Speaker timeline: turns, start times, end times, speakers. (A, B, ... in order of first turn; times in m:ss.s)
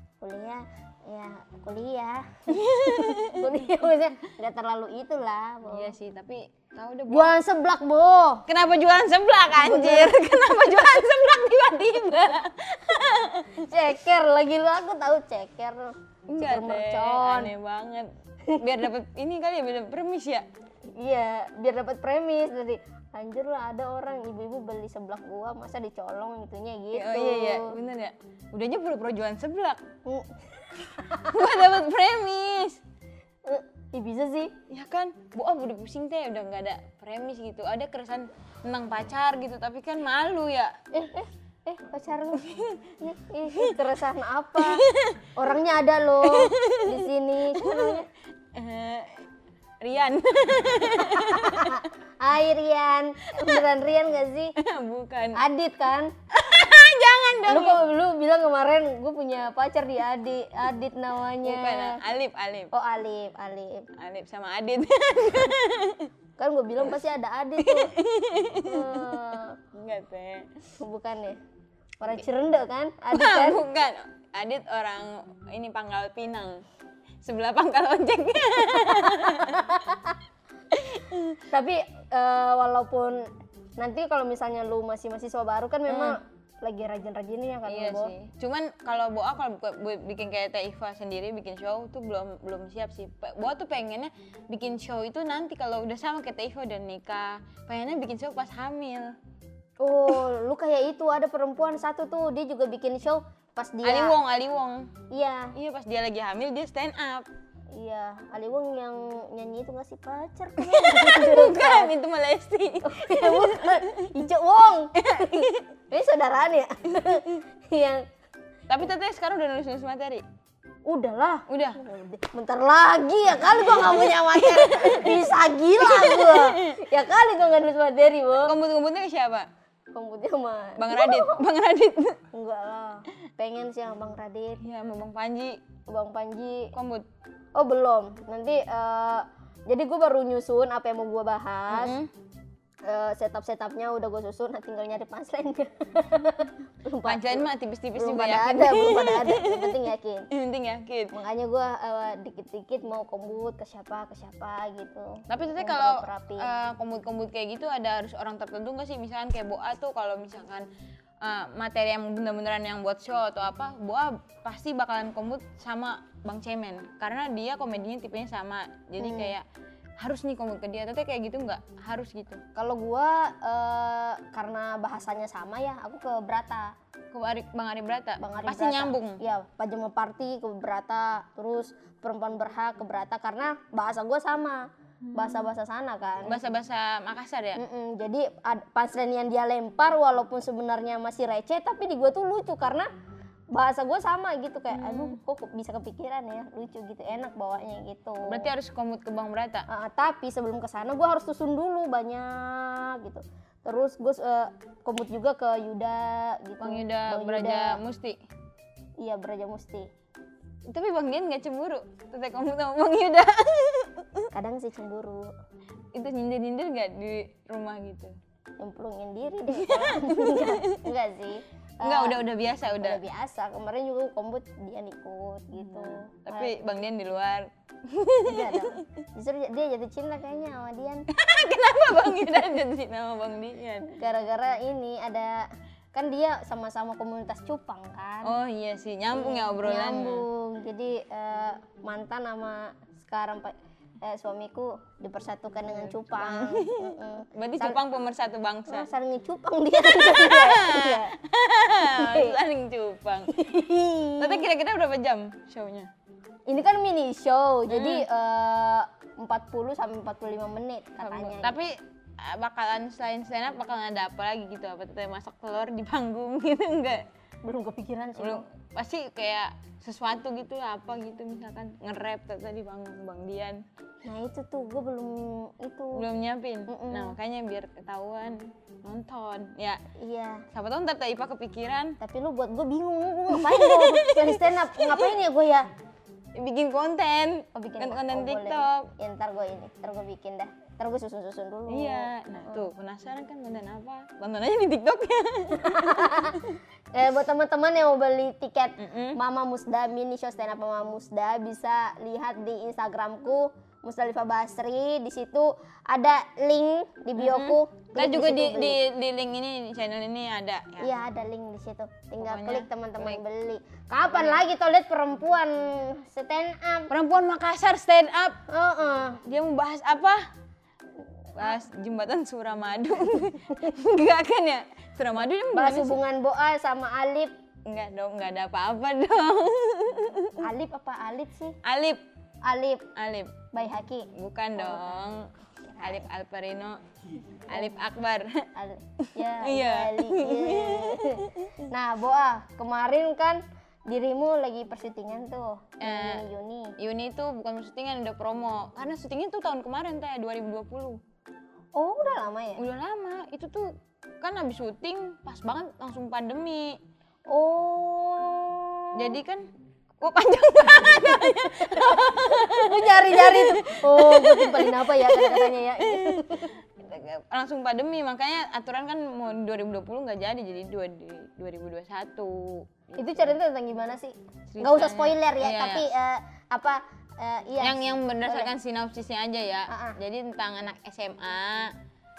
0:00.2-0:05.9 A
0:02.5-0:03.5 B
0:05.7-0:07.4 B
0:07.1-0:08.4 A
0:08.5-0:13.6 B
0:09.5-0:10.2 A
0:13.5-0:17.5 A
0:16.3-0:20.5 B
0:21.0-0:27.8 A
0:26.9-0:29.8 B
0:30.0-0:31.7 A
0:31.3-0:32.8 B
0:33.5-0:34.5 A
0:34.7-0:40.8 B
0:40.9-0:42.5 A
0:42.4-0:42.8 B
0:43.0-0:44.8 A
0:43.5-0:43.8 B
0:44.6-0:45.3 B
0:45.4-0:48.1 A
0:46.2-0:47.0 B
0:47.6-0:48.0 B
0:48.6-0:49.2 B
0:49.8-0:51.9 B
0:51.3-0:54.5 A
0:53.3-0:53.6 B
0:54.6-0:55.4 B
0:55.4-0:56.1 A
0:56.3-0:57.8 B
0:57.5-1:02.0 A
1:01.4-1:02.7 B
1:02.7-1:03.9 A
1:04.0-1:06.1 B
1:06.4-1:07.9 A
1:07.6-1:10.5 B
1:08.6-1:09.6 A
1:10.8-1:11.4 A
1:12.0-1:13.6 A
1:13.1-1:16.6 B
1:17.2-1:19.7 B
1:18.8-1:20.2 A
1:20.7-1:21.4 B
1:21.5-1:28.1 A
1:25.9-1:26.2 B
1:27.7-1:39.2 B
1:39.8-1:44.2 A
1:43.8-1:44.9 B
1:45.1-1:45.5 A
1:45.6-1:47.3 B
1:47.7-1:51.9 A
1:50.6-1:54.1 B
1:52.8-1:58.0 A
1:55.0-1:55.7 B
1:58.7-2:00.2 B
2:00.9-2:08.6 A
2:01.5-2:01.8 B
2:03.4-2:06.8 B
2:08.4-2:09.5 B
2:09.9-2:11.4 A
2:10.8-2:12.2 B
2:12.3-2:14.6 A
2:14.6-2:15.6 B
2:15.9-2:16.7 A
2:16.7-2:17.1 B
2:17.6-2:22.0 A
2:21.7-2:22.1 B
2:22.9-2:30.3 A
2:27.0-2:31.1 B
2:31.1-2:36.5 A
2:35.3-2:40.7 B
2:41.2-2:49.4 B
2:49.0-2:49.4 A
2:50.0-2:52.4 B
2:52.6-2:56.8 A
2:57.1-2:59.2 B
2:58.2-3:06.4 A
3:05.0-3:05.5 B
3:06.2-3:07.6 B
3:07.6-3:12.9 A
3:13.5-3:18.5 A
3:14.7-3:15.2 B
3:18.2-3:19.7 B
3:19.7-3:27.8 A
3:26.6-3:28.2 B
3:29.0-3:29.9 A
3:30.7-3:34.3 B
3:34.3-3:35.3 A
3:35.9-3:38.2 B
3:38.6-3:42.2 A
3:39.5-3:40.9 B
3:41.8-3:43.0 B
3:42.8-3:46.6 A
3:45.6-3:48.8 B
3:48.3-3:51.1 A
3:51.1-3:53.9 B
3:53.9-3:58.4 A
3:58.2-4:00.2 B
3:59.1-4:07.8 A
4:05.7-4:08.9 B
4:08.7-4:11.1 A
4:09.9-4:13.4 B
4:11.8-4:12.4 A
4:13.3-4:14.5 A
4:14.2-4:15.9 B
4:16.5-4:21.6 A
4:17.7-4:18.0 B
4:21.0-4:27.0 B
4:27.4-4:28.4 A
4:28.2-4:33.6 B
4:34.0-4:36.1 A
4:36.0-4:39.8 B
4:36.7-4:37.2 A
4:40.0-4:40.4 A
4:40.5-4:42.0 B
4:42.0-4:45.7 A
4:43.3-4:45.1 B
4:46.4-4:48.9 B
4:47.6-4:52.7 A
4:51.7-4:56.6 B
4:55.6-4:56.4 A
4:56.9-5:08.8 A
4:58.8-4:59.2 B
5:07.2-5:10.9 B
5:10.8-5:16.9 A
5:12.2-5:13.2 B
5:14.1-5:14.4 B
5:16.9-5:18.4 B
5:18.5-5:19.2 A
5:19.2-5:20.2 B
5:21.4-5:26.0 B
5:25.5-5:27.3 A
5:27.7-5:30.4 B
5:30.4-5:31.6 A
5:31.6-5:32.0 B
5:32.4-5:32.8 A
5:33.0-5:33.4 B
5:33.5-5:36.1 A
5:34.1-5:36.8 B
5:37.5-5:38.4 B
5:38.6-5:46.7 A
5:39.0-5:41.6 B
5:45.8-5:46.2 B
5:46.8-5:51.0 B
5:51.8-5:52.6 A
5:52.6-5:56.8 B
5:57.3-5:59.2 A
5:59.0-5:59.5 B
6:00.0-6:13.3 B
6:00.8-6:06.6 A
6:13.0-6:18.5 A
6:14.5-6:15.8 B
6:17.6-6:21.7 B
6:19.7-6:20.0 A